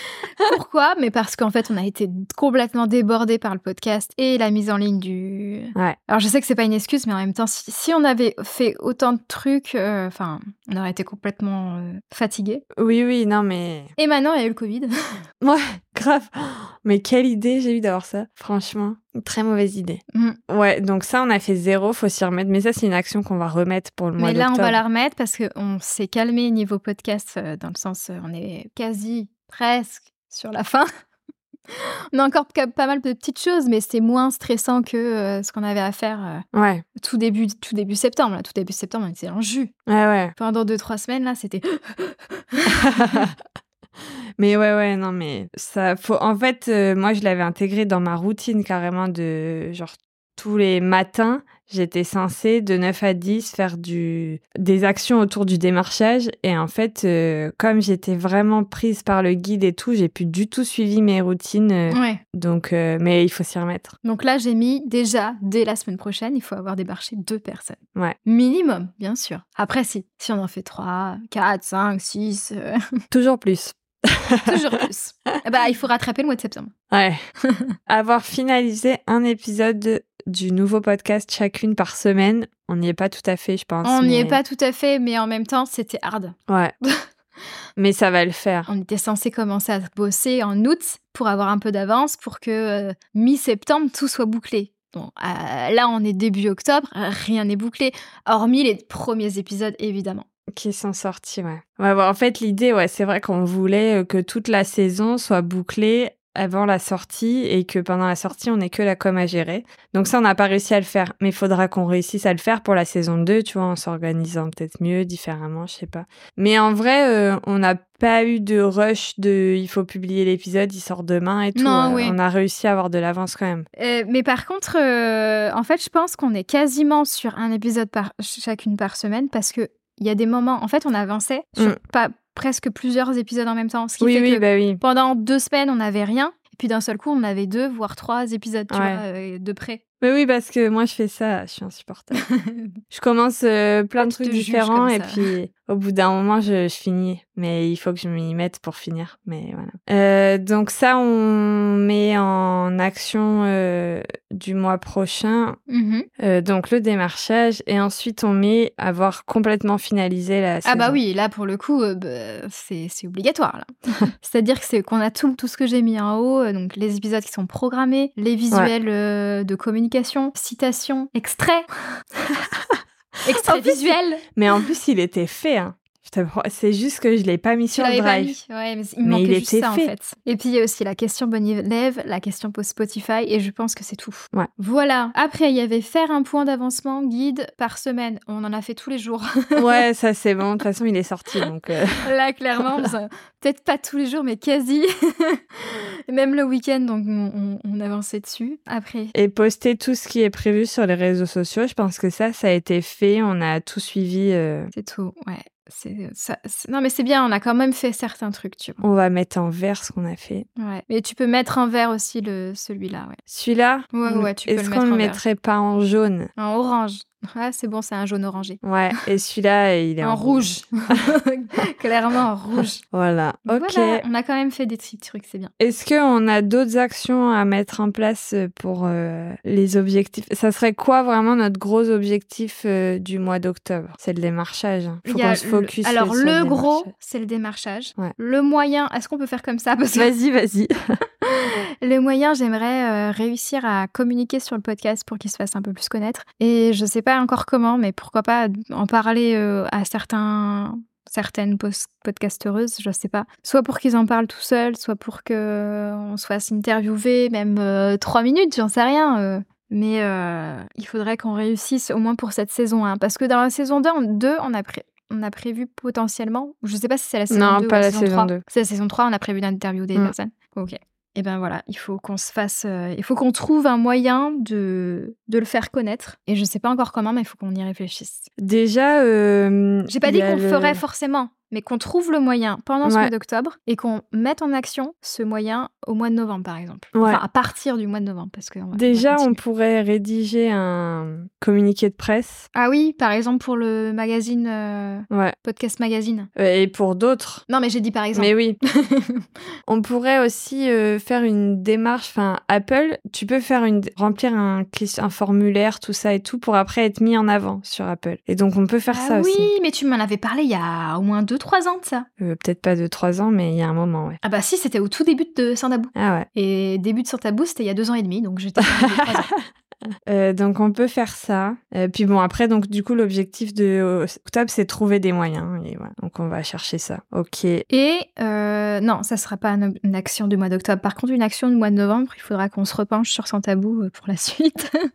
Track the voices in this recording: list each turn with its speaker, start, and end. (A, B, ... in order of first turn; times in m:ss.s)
0:00.4-0:12.6 A
0:12.8-0:13.9 B
0:14.0-0:14.9 A
0:15.4-0:24.8 B
0:20.1-0:20.4 A
0:24.2-0:30.9 A
0:31.7-0:39.7 A
0:36.5-0:36.8 B
0:39.9-0:40.3 B
0:40.4-0:43.2 A
0:42.7-0:43.3 B
0:44.4-1:04.0 B
1:01.9-1:02.2 A
1:04.0-1:12.8 A
1:13.1-1:14.8 B
1:14.5-1:16.7 A
1:16.9-1:17.2 B
1:17.4-1:17.7 A
1:17.9-1:24.4 B
1:23.8-1:27.0 A
1:27.8-1:28.7 B
1:28.7-1:40.2 A
1:40.5-2:03.6 B
2:01.5-2:02.2 A
2:03.8-2:19.8 A
2:14.0-2:14.8 B
2:18.7-2:19.0 B
2:20.0-2:22.2 B
2:22.3-2:22.7 A
2:22.9-2:35.6 B
2:24.0-2:25.3 A
2:35.7-2:36.1 A
2:36.2-2:41.0 B
2:40.6-2:51.7 A
2:52.3-2:52.8 B
2:53.2-2:54.2 A
2:53.3-2:58.3 B
2:57.7-3:09.8 A
2:59.0-2:59.9 B
3:09.6-3:12.1 B
3:12.0-3:19.1 A
3:19.1-3:24.7 B
3:24.7-3:28.8 A
3:28.8-3:30.5 B
3:30.6-3:33.2 A
3:33.3-3:36.3 B
3:33.9-3:35.2 A
3:36.4-3:38.6 A
3:38.6-3:41.0 B
3:40.0-3:42.8 A
3:42.9-3:44.0 B
3:43.5-3:45.5 A
3:45.6-3:56.9 B
3:55.0-4:00.1 A
3:59.9-4:01.0 B
4:01.2-4:38.3 A
4:27.3-4:28.4 B
4:38.4-4:40.8 B
4:39.9-4:49.4 A
4:42.8-4:43.1 B
4:46.9-4:47.2 B
4:48.7-4:52.5 B
4:52.5-4:56.3 A
4:55.1-4:55.4 B
4:56.3-4:57.4 B
4:57.5-4:59.2 A
4:58.1-4:58.6 B
4:59.7-5:09.5 B
5:08.9-5:12.1 A
5:12.2-5:14.2 B
5:14.2-5:19.3 A
5:15.9-5:16.3 B
5:18.6-5:19.4 B
5:20.1-5:27.6 B
5:27.7-5:34.8 A